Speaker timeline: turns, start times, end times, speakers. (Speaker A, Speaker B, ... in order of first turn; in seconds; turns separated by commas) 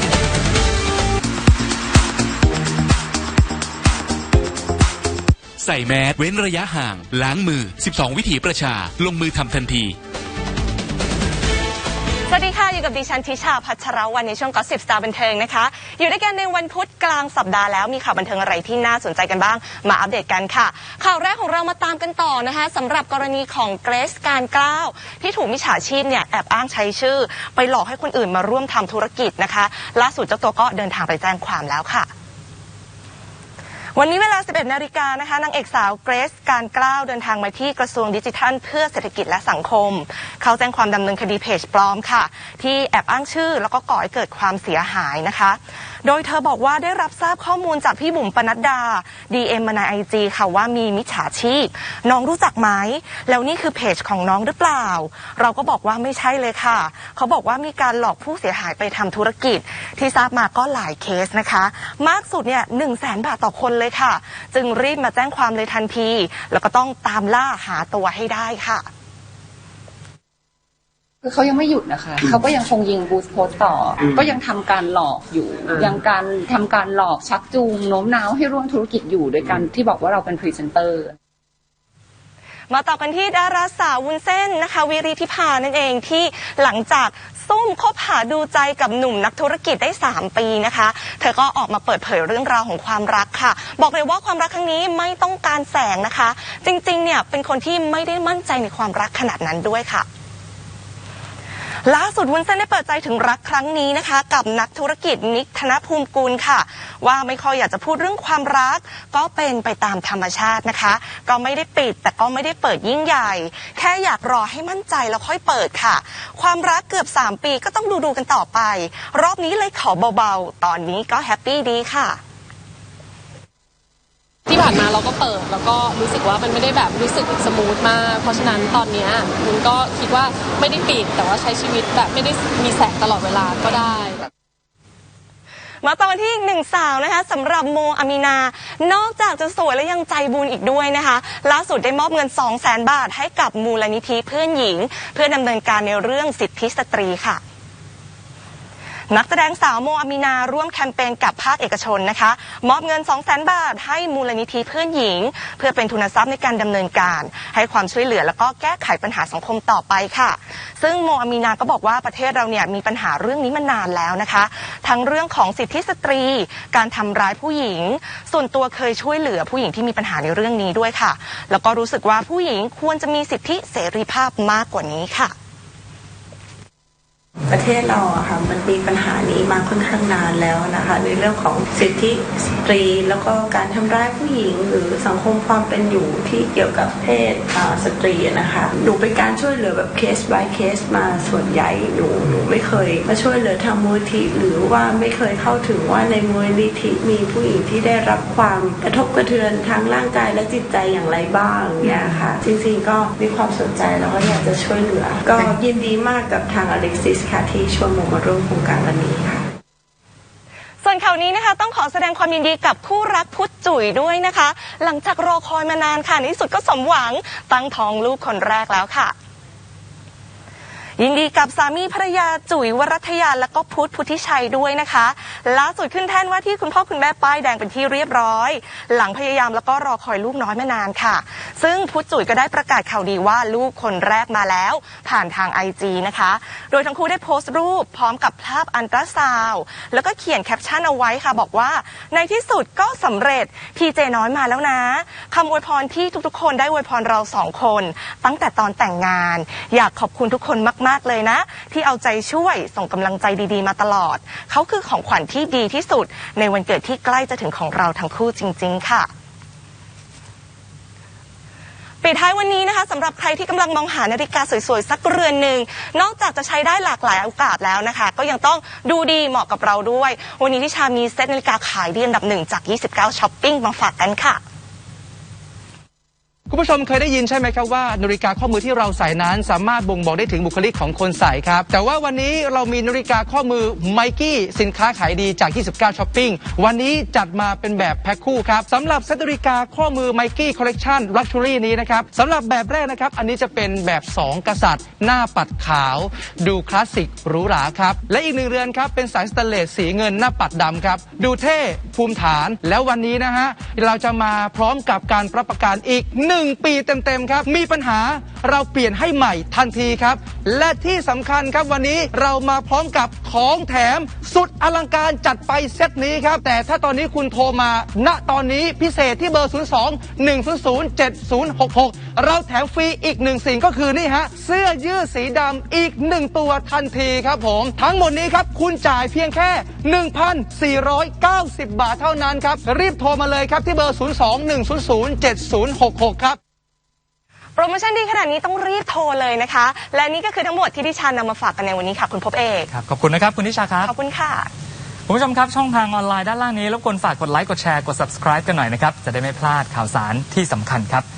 Speaker A: 5.6-10.0, Speaker B: 12.3-32.1, Speaker B: 34.0-68.9, Speaker C: 71.2-81.1, Speaker B: 82.7-100.1, Speaker B: 101.8-122.2, Speaker D: 124.5-134.3, Speaker B: 135.8-147.4, Speaker B: 149.1-175.3, Speaker E: 177.5-209.5, Speaker B: 210.8-219.1, Speaker B: 221.0-259.1, Speaker B: 262.0-274.4, Speaker F: 276.5-336.4, Speaker B: 337.6-342.7, Speaker G: 342.7-343.9, Speaker B: 343.8-344.5, Speaker G: 345.1-351.0